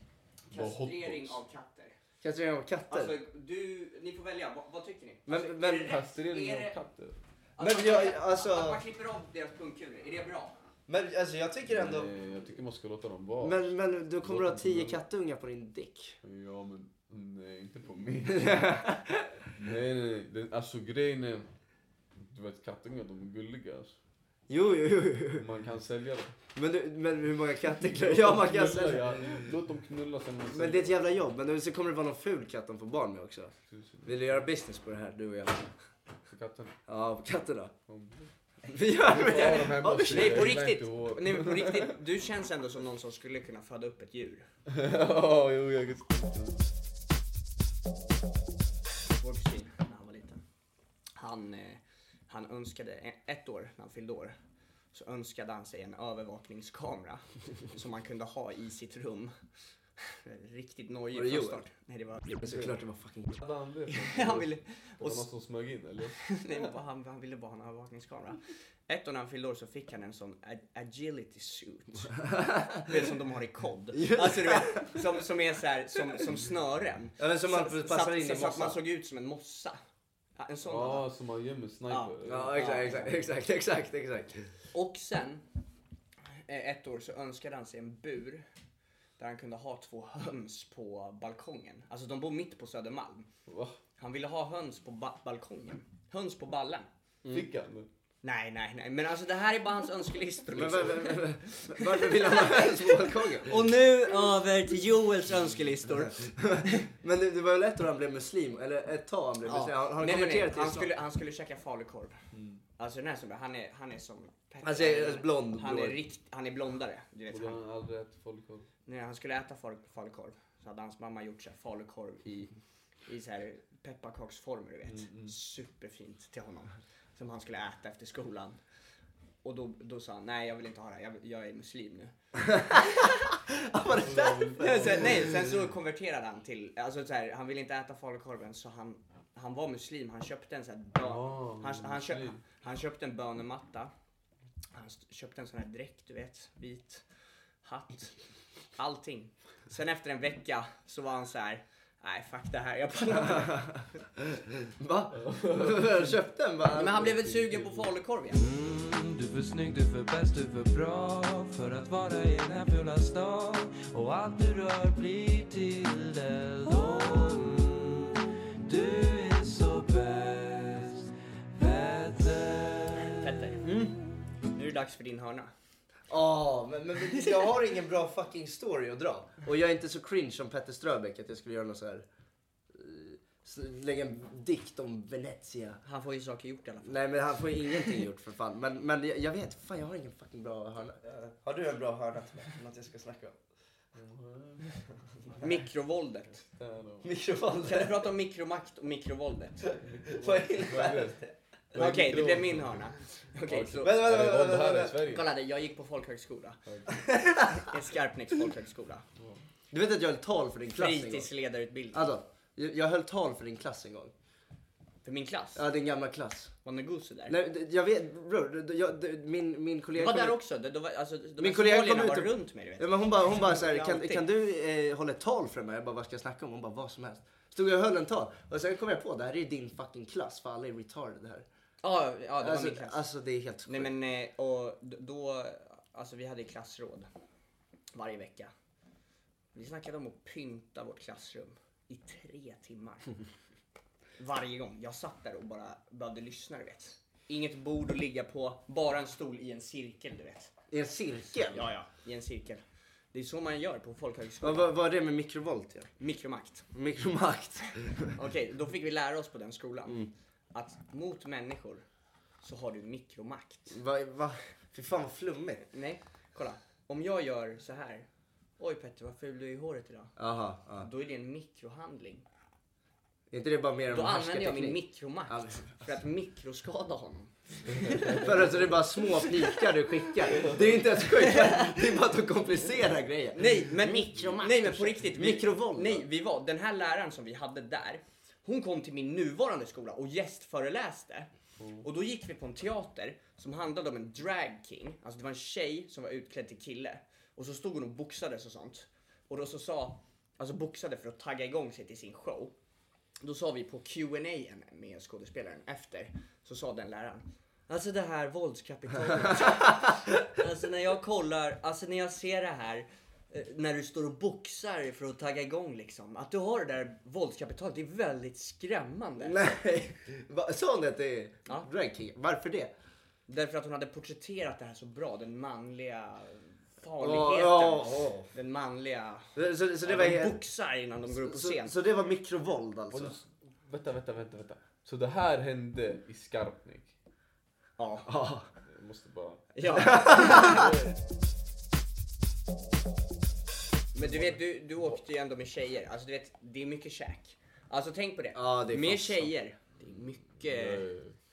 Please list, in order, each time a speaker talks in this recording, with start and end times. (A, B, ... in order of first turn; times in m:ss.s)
0:00.5-0:01.9 A
0:00.5-0:01.4 B
0:02.2-0:03.1 C
0:02.9-0:06.7 A
0:05.2-0:06.0 C
0:05.8-0:07.2 B
0:07.6-0:10.5 A
0:07.6-0:08.8 C
0:10.9-0:12.1 C
0:11.7-0:15.0 B
0:13.4-0:16.2 C
0:16.2-0:18.8 B
0:18.3-0:19.3 C
0:19.5-0:21.5 B
0:22.2-0:24.0 B
0:24.5-0:25.5 C
0:25.4-0:26.3 B
0:26.5-0:29.4 C
0:27.8-0:31.0 B
0:30.5-0:35.7 C
0:33.7-0:34.4 B
0:36.3-0:36.8 B
0:36.9-0:37.7 C
0:37.9-0:38.3 B
0:38.7-0:40.7 C
0:38.9-0:41.9 B
0:39.4-0:44.5 A
0:44.7-0:46.6 B
0:49.2-0:50.4 A
0:51.2-0:54.4 A
0:54.9-0:59.3 A
1:00.2-1:02.3 A
1:01.1-1:01.6 C
1:02.2-1:03.4 C
1:02.4-1:02.7 B
1:03.4-1:06.3 B
1:03.9-1:05.2 A
1:06.2-1:12.2 A
1:12.2-1:12.9 C
1:12.8-1:19.8 A
1:13.9-1:15.0 C
1:17.2-1:18.8 C
1:20.4-1:21.1 A
1:20.6-1:23.2 B
1:21.9-1:23.1 A
1:22.2-1:24.4 C
1:24.7-1:25.4 A
1:26.5-1:28.4 A
1:29.2-1:33.3 A
1:33.5-1:33.8 B
1:34.0-1:36.9 A
1:37.3-1:37.9 B
1:38.2-1:46.7 A
1:40.5-1:43.5 C
1:46.2-1:50.9 C
1:49.4-1:52.2 A
1:52.3-1:52.6 B
1:52.8-1:57.6 A
1:54.6-1:56.0 C
1:57.3-1:58.7 B
1:58.8-2:02.5 A
2:03.1-2:08.6 A
2:04.8-2:05.3 B
2:09.4-2:12.1 A
2:12.4-2:15.5 C
2:13.9-2:15.6 B
2:14.6-2:23.9 A
2:21.0-2:22.4 B
2:24.7-2:27.0 A
2:27.6-2:28.2 A
2:28.8-2:33.6 A
2:33.1-2:37.2 C
2:35.1-2:37.9 B
2:36.7-2:38.4 A
2:38.3-2:53.2 D
2:53.2-2:53.9 A
2:53.6-2:53.9 C
2:54.5-2:55.5 A
2:56.1-3:02.0 C
3:02.7-3:05.8 C
3:05.8-3:07.2 A
3:06.8-3:13.4 C
3:13.9-3:14.7 B
3:15.4-3:16.4 A
3:16.4-3:17.1 B
3:17.0-3:18.1 C
3:17.6-3:19.6 A
3:19.8-3:21.2 B
3:20.0-3:21.3 C
3:21.7-3:22.9 B
3:21.7-3:24.0 A
3:23.5-3:25.3 B
3:23.6-3:25.0 C
3:25.1-3:26.6 A
3:26.6-3:27.0 B
3:26.9-3:27.6 C
3:27.6-3:29.0 A
3:29.7-3:31.3 C
3:30.7-3:32.1 A
3:31.9-3:34.1 C
3:35.0-3:35.6 A
3:35.6-3:36.5 C
3:36.6-3:37.4 A
3:37.3-3:40.4 C
3:40.0-3:44.2 A
3:41.4-3:51.4 C
3:51.8-3:53.0 A
3:52.4-3:53.9 C
3:53.6-3:57.1 A
3:57.9-3:58.5 A
3:59.5-4:03.1 A
4:04.2-4:10.5 A
4:10.7-4:11.7 C
4:11.5-4:12.6 A
4:13.1-4:14.7 A
4:14.4-4:15.9 C
4:16.0-4:16.7 A
4:16.7-4:18.2 C
4:18.2-4:21.8 A
4:19.8-4:20.1 C
4:22.4-4:23.8 A
4:23.7-4:25.7 C
4:25.7-4:28.1 A
4:28.6-4:30.1 A
4:30.2-4:30.9 C
4:30.8-4:32.2 A
4:33.3-4:36.0 C
4:33.9-4:38.5 A
4:37.9-4:38.2 B
4:38.1-4:46.1 C
4:41.0-4:41.7 A
4:43.3-4:51.3 A
4:51.6-4:51.9 B
4:51.8-5:02.5 A
5:03.2-5:19.5 A
5:19.2-5:22.7 C
5:23.3-5:31.7 A
5:27.0-5:28.3 C
5:29.4-5:30.4 C
5:31.0-5:33.2 C
5:32.9-5:36.9 B
5:37.8-5:38.1 A
5:38.0-5:38.5 C
5:38.7-5:41.0 B
5:39.5-5:40.7 A
5:39.7-5:40.7 C
5:43.9-5:50.9 A
5:44.0-5:44.4 B
5:48.3-5:49.3 C
5:50.4-5:51.2 B